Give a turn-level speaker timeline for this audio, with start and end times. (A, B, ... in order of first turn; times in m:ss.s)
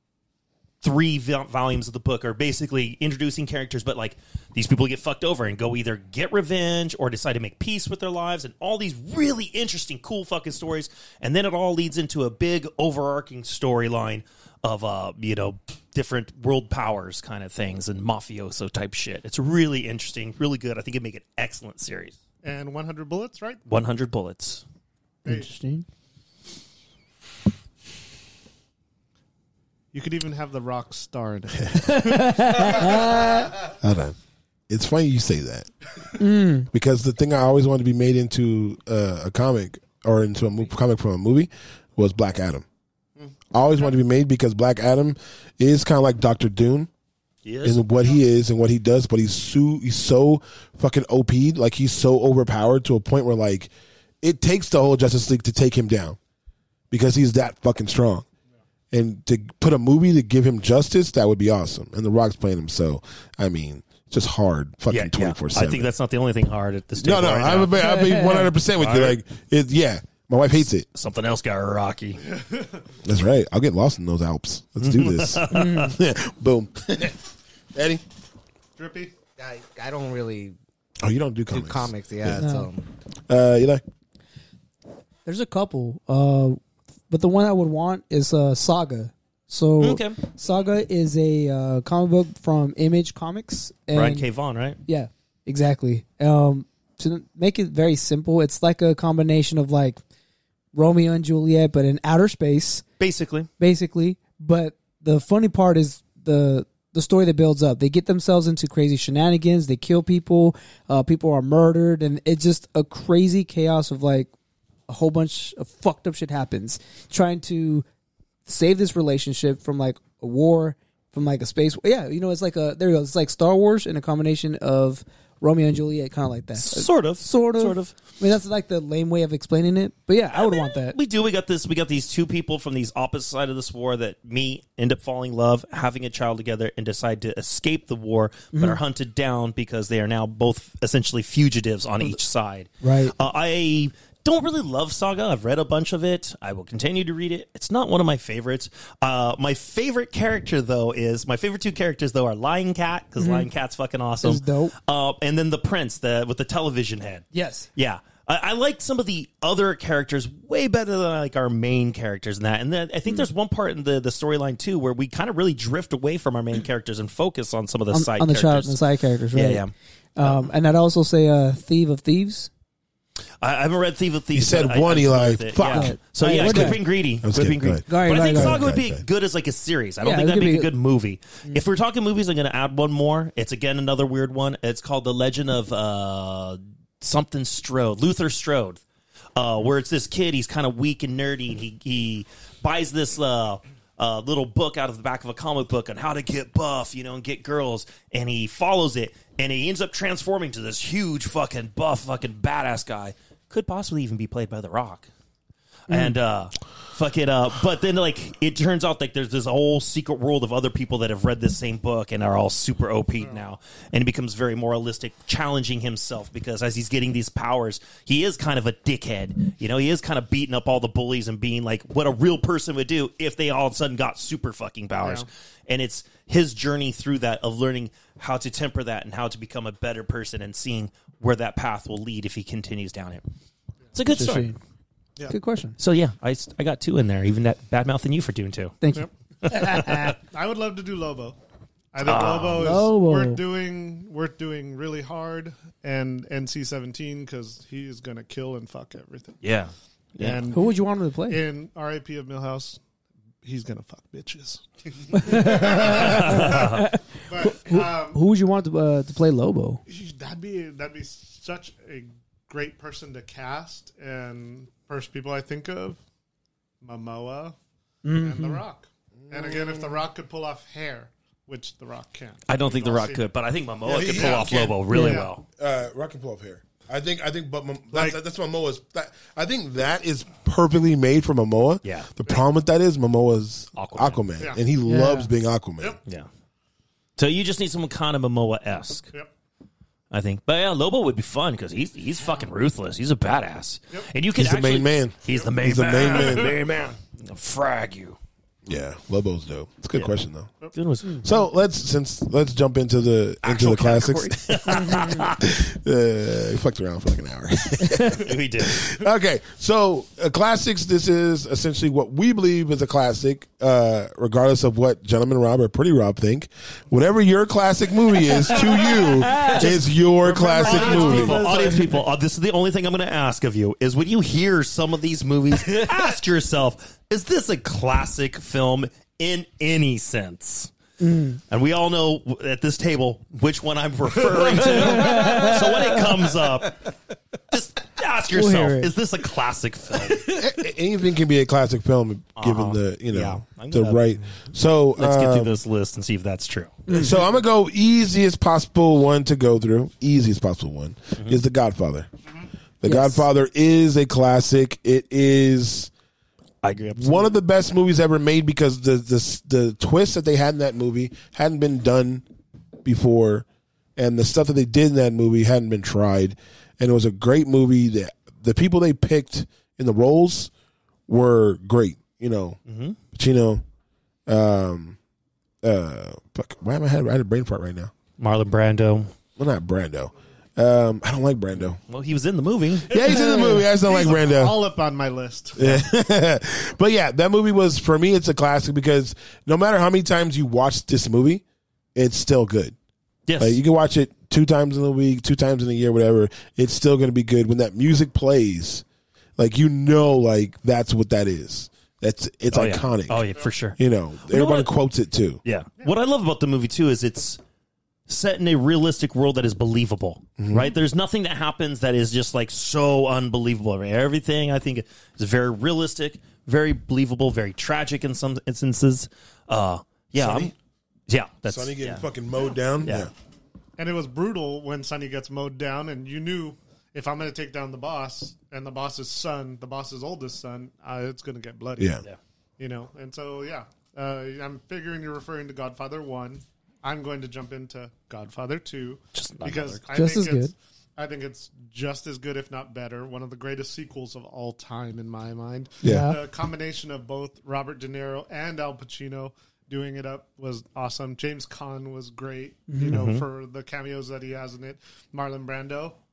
0:00.8-0:22.2 A
0:22.4-0:23.6 B
0:23.7-0:24.6 A
0:25.2-0:25.5 B
0:25.2-0:25.8 C
0:29.9-0:33.3 B
0:31.8-0:33.5 C
0:33.8-0:34.2 D
0:34.7-0:35.7 D
0:36.2-0:36.7 C
0:36.7-0:42.6 D
0:43.5-0:46.9 D
0:47.4-0:47.8 A
0:47.6-0:53.7 D
0:54.2-0:56.2 D
0:56.9-0:58.2 D
0:58.9-1:05.9 D
1:04.9-1:07.8 A
1:07.0-1:10.8 D
1:07.8-1:08.5 C
1:08.8-1:09.2 A
1:10.9-1:12.2 A
1:12.2-1:12.8 B
1:13.0-1:17.2 D
1:14.8-1:15.9 A
1:15.5-1:16.0 C
1:17.7-1:18.0 D
1:18.8-1:19.1 B
1:19.4-1:20.6 E
1:21.0-1:22.4 D
1:21.5-1:22.9 E
1:22.4-1:22.7 C
1:23.3-1:23.8 D
1:25.2-1:26.6 C
1:27.1-1:34.3 C
1:29.8-1:30.2 A
1:33.9-1:34.8 A
1:34.8-1:40.0 C
1:40.7-1:42.8 C
1:43.0-1:43.5 A
1:43.6-1:54.3 C
1:54.9-1:57.8 C
1:58.4-2:11.0 C
2:06.6-2:07.9 A
2:10.4-2:48.8 A
2:18.5-2:18.8 C
2:22.8-2:23.1 C
2:33.2-2:33.5 C
2:34.2-2:34.7 C
2:37.3-2:37.7 C
2:47.9-2:49.6 C
2:49.3-2:50.4 A
2:50.2-2:52.5 C
2:53.4-3:08.8 A
2:54.3-2:59.0 D
2:55.7-2:56.8 C
2:57.9-2:58.7 C
3:00.0-3:00.7 C
3:09.4-3:25.1 A
3:25.9-3:26.1 C
3:25.9-3:53.2 A
3:45.0-3:45.3 B
3:53.9-3:54.5 A
3:54.1-3:54.6 C
3:55.3-3:55.7 C
3:55.8-3:58.8 A
3:58.8-4:00.2 C
3:59.5-4:00.1 A
4:00.3-4:01.4 B
4:01.9-4:09.4 B
4:02.0-4:02.7 A
4:02.6-4:03.4 C
4:09.4-4:10.4 A
4:10.2-4:12.8 B
4:10.5-4:11.4 C
4:13.4-4:16.7 B
4:15.1-4:19.8 C
4:15.8-4:16.8 A
4:17.3-4:18.2 B
4:19.9-4:26.0 B
4:26.8-4:27.6 B
4:28.0-4:28.6 C
4:28.1-4:33.3 B
4:29.3-4:29.8 D
4:32.5-4:35.4 A
4:33.8-4:34.6 D
4:33.9-4:35.3 B
4:34.9-4:35.2 C
4:35.6-4:46.0 D
4:37.9-4:38.2 B
4:41.8-4:42.2 A
4:43.8-4:44.2 A
4:44.8-4:45.3 C
4:47.2-4:49.1 A
4:50.1-4:58.2 A
4:54.4-4:56.5 D
4:55.3-4:56.5 B
4:58.6-5:00.5 D
5:00.7-5:01.2 A
5:01.2-5:21.5 D
5:03.4-5:05.5 A
5:08.2-5:08.9 A
5:19.4-5:30.7 A
5:20.7-5:21.8 E
5:20.7-5:21.6 B
5:25.7-5:26.0 E
5:31.0-5:31.4 C
5:31.5-5:36.9 A
5:34.3-5:36.0 E
5:34.9-5:35.6 C
5:37.5-5:40.3 A
5:38.3-5:38.9 C
5:40.3-5:45.5 D
5:42.4-5:44.2 A
5:45.0-5:47.0 A
5:46.9-5:52.1 D
5:52.8-5:55.9 D
5:52.8-5:53.3 C
5:56.6-5:57.3 A
5:56.9-6:02.2 D
6:02.8-6:10.5 D
6:11.1-6:12.6 D
6:12.7-6:13.0 A
6:13.1-6:13.6 D
6:14.3-6:15.0 D
6:15.6-6:17.9 D
6:18.2-6:19.1 A
6:19.4-6:21.8 D
6:21.9-6:23.0 A
6:22.9-6:24.6 D
6:23.0-6:25.6 B
6:25.6-6:31.4 D
6:31.9-6:32.7 D
6:33.3-6:33.6 A
6:33.4-6:38.8 D
6:39.4-6:43.2 D
6:42.5-6:44.7 A
6:43.8-6:45.4 D
6:45.4-6:47.4 A
6:48.1-7:00.5 A
6:50.4-6:50.7 D
7:00.2-7:00.5 D
7:01.1-7:02.0 A
7:01.4-7:03.1 D
7:02.8-7:03.1 A
7:03.8-7:12.0 B
7:12.6-7:36.0 B
7:19.1-7:19.8 A
7:19.9-7:20.5 C
7:25.8-7:26.1 D
7:25.8-7:26.2 C
7:32.7-7:33.0 C
7:32.9-7:33.2 A